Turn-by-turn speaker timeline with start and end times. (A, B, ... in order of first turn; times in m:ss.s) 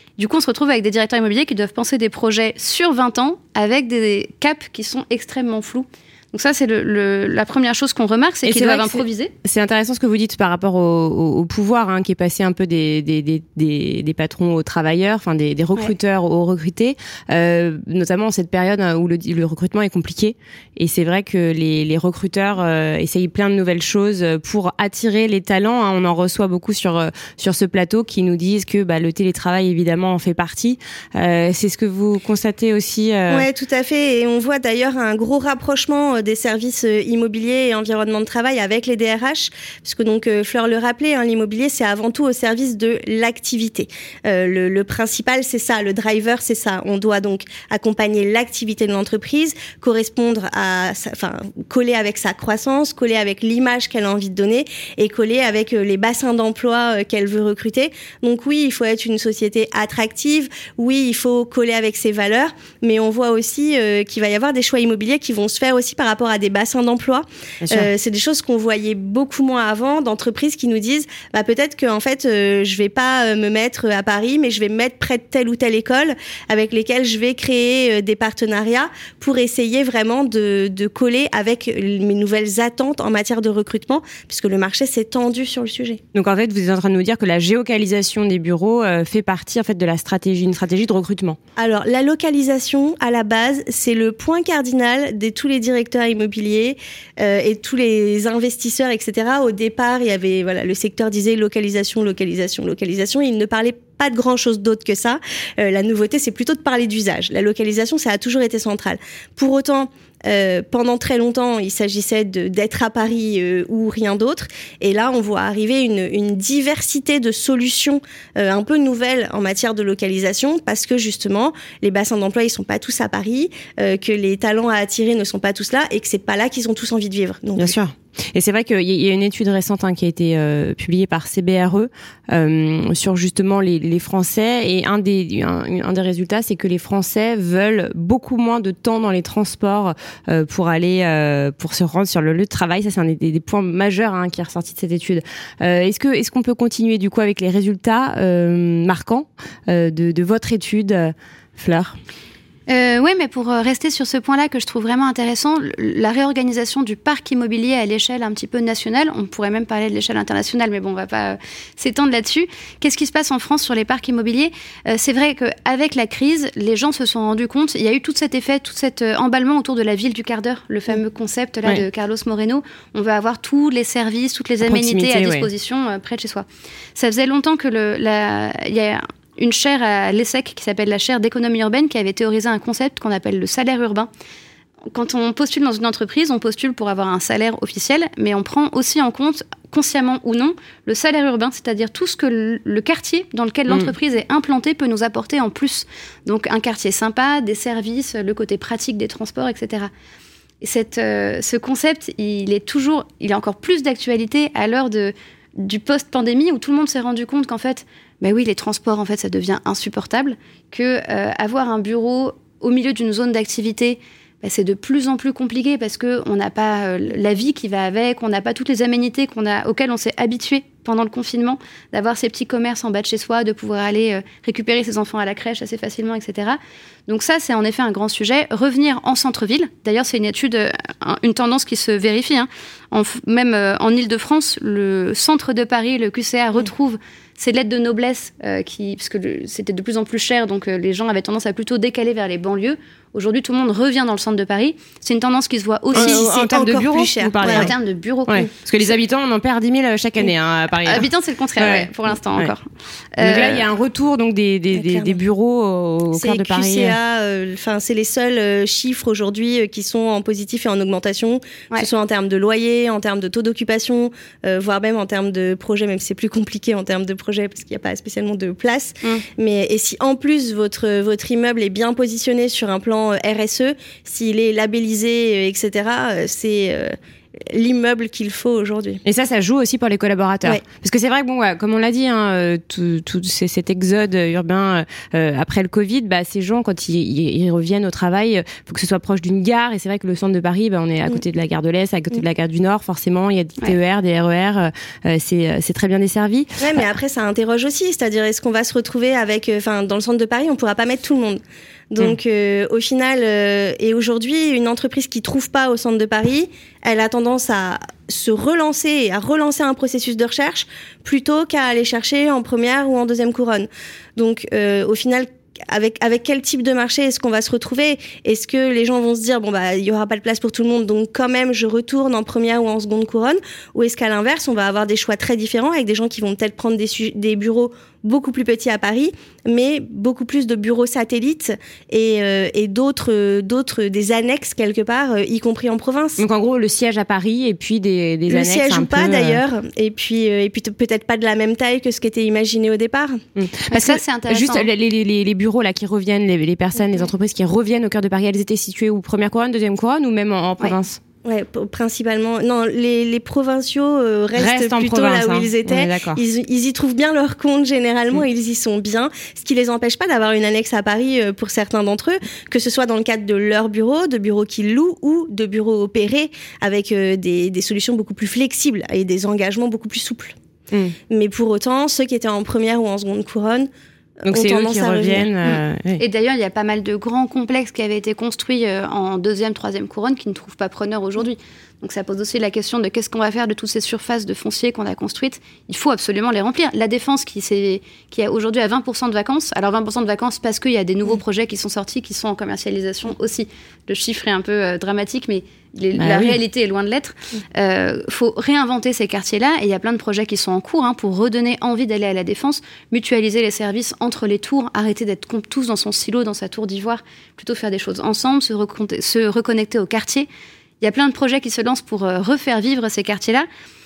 0:00.2-0:09.3 A
0:08.4-0:33.5 B
0:33.3-1:26.0 C
1:07.6-1:07.9 B
1:26.1-1:31.4 B
1:31.6-2:07.8 C
2:07.6-2:32.0 B
2:32.7-3:04.1 A
2:54.6-2:55.5 B
3:04.9-3:19.9 A
3:20.6-4:06.2 A
4:05.9-4:07.8 B
4:06.0-4:07.7 C
4:07.4-4:08.4 A
4:08.3-4:11.1 B
4:10.8-4:13.7 A
4:11.6-4:12.5 B
4:13.2-4:17.0 B
4:14.7-4:15.2 C
4:16.1-4:39.0 C
4:39.1-4:56.6 B
4:56.6-5:01.4 C
5:01.9-5:36.2 C
5:36.2-5:39.4 B
5:38.3-5:43.2 C
5:43.4-5:51.0 B
5:43.7-5:44.7 A
5:51.2-6:10.4 C
5:54.4-5:56.2 B
6:10.7-6:11.0 B
6:11.1-6:13.7 C
6:14.2-6:15.3 C
6:14.3-6:16.0 B
6:16.0-6:50.3 A
6:36.0-6:36.4 B
6:50.8-6:53.5 A